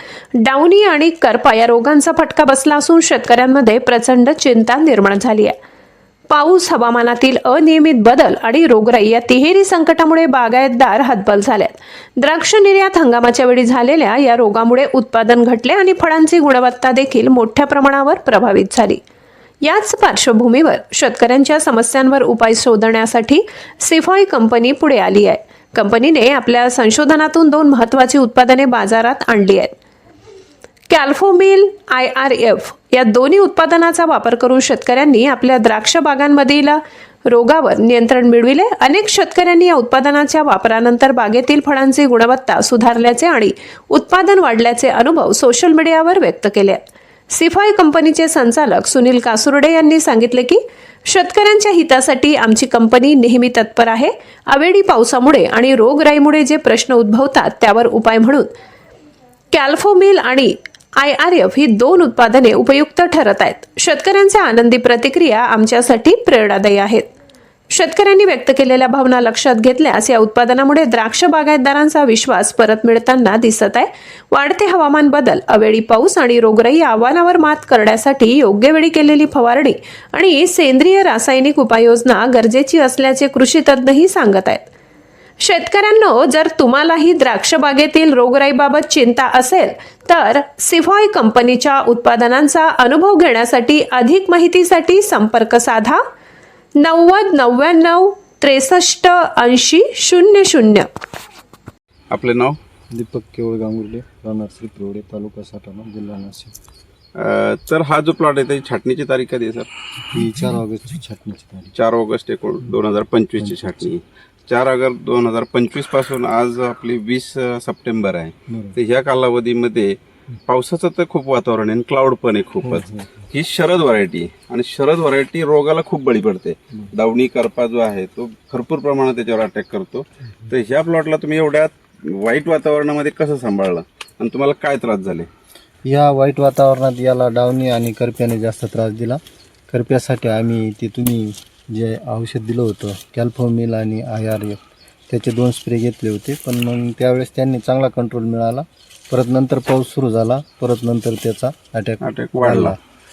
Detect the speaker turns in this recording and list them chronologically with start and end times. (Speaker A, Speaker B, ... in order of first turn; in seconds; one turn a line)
Speaker A: 0.4-5.5
Speaker A: 6.3-19.0
Speaker A: 19.6-29.7
Speaker A: 30.9-46.8
Speaker A: 47.3-58.5
Speaker A: 59.5-67.1
Speaker A: 67.7-84.6
Speaker A: 85.4-96.0
Speaker A: 96.8-100.9
Speaker B: 102.1-102.6
Speaker C: 102.9-106.5
Speaker B: 107.2-109.7
Speaker C: 110.1-111.7
Speaker B: 111.7-119.9
Speaker C: 113.4-113.7
Speaker C: 118.5-118.7
Speaker B: 120.5-135.3
Speaker C: 122.6-123.1
Speaker C: 135.9-152.8
Speaker B: 152.0-152.8